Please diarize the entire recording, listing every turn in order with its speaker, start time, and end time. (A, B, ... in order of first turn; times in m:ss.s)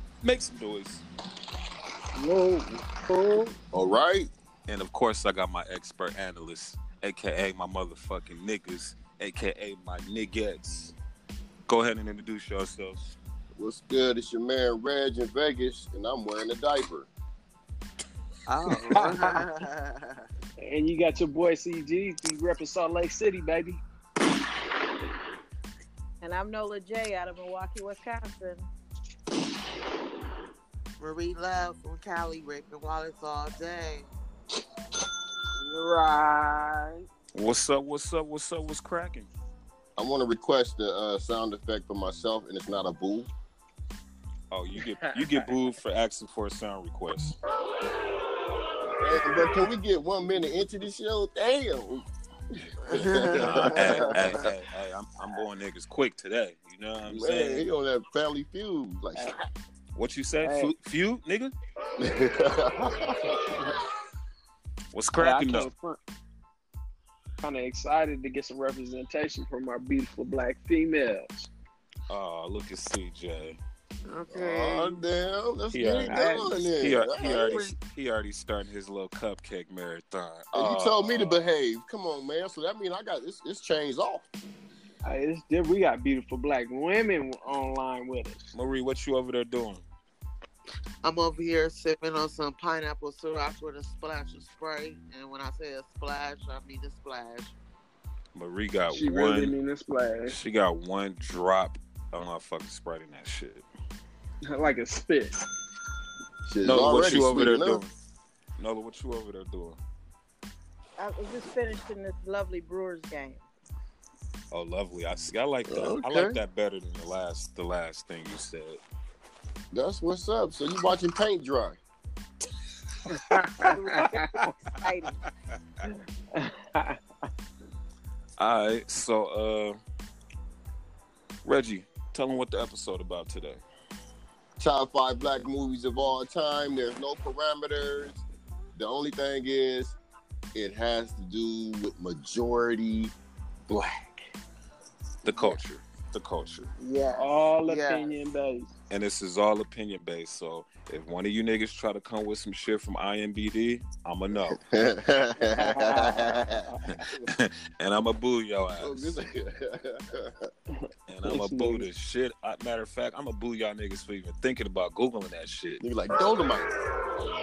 0:00.2-0:01.0 A
0:02.1-0:03.5 B
0:03.7-0:04.3 C
0:04.7-0:10.9 A
0:11.7-0:13.2 A
0:13.6-0:17.1 C
0:18.5-0:20.3 D
0:18.8-0:19.4 B
0:20.6-0:23.8 B
0:26.2-0:28.7 E
0:31.0-0:34.1 D
0:35.5-0:37.0 B
0:37.3-0:39.3 A
0:40.0-0:43.3 C
0:44.5-0:47.4 A
0:44.8-0:45.3 B
0:49.0-0:52.0 C
0:52.8-0:54.5 C
0:52.9-0:54.4 D
0:53.4-0:57.6 A
0:57.0-0:59.3 C
0:59.9-1:01.5 A
1:00.4-1:00.7 B
1:02.0-1:03.6 C
1:04.9-1:05.7 A
1:05.2-1:06.0 B
1:07.4-1:11.5 B
1:12.1-1:13.6 A
1:14.1-1:15.0 D
1:14.3-1:17.6 C
1:15.7-1:21.4 A
1:16.1-1:16.6 B
1:17.2-1:17.7 D
1:20.5-1:24.3 C
1:25.0-1:28.5 B
1:28.5-1:29.8 A
1:31.0-1:37.5 D
1:38.3-1:39.5 A
1:38.9-1:40.4 B
1:40.3-1:43.6 A
1:44.5-1:45.4 B
1:46.4-1:47.8 C
1:46.6-1:47.9 A
1:48.6-1:49.8 A
1:51.0-1:53.4 E
1:54.5-1:58.8 A
1:55.7-1:56.4 C
1:59.7-2:01.8 C
2:03.1-2:04.5 B
2:03.6-2:05.2 E
2:05.8-2:07.0 B
2:08.4-2:09.8 A
2:11.4-2:13.6 A
2:14.6-2:18.2 C
2:18.7-2:20.0 C
2:20.5-2:23.1 C
2:23.7-2:24.2 B
2:25.2-2:26.7 A
2:25.2-2:25.6 D
2:26.8-2:28.2 D
2:27.1-2:28.7 B
2:28.9-2:34.6 A
2:34.3-2:36.8 C
2:35.5-2:36.4 B
2:36.9-2:39.2 A
2:38.8-2:40.5 C
2:40.7-2:41.8 B
2:41.1-2:45.8 A
2:45.8-2:46.7 C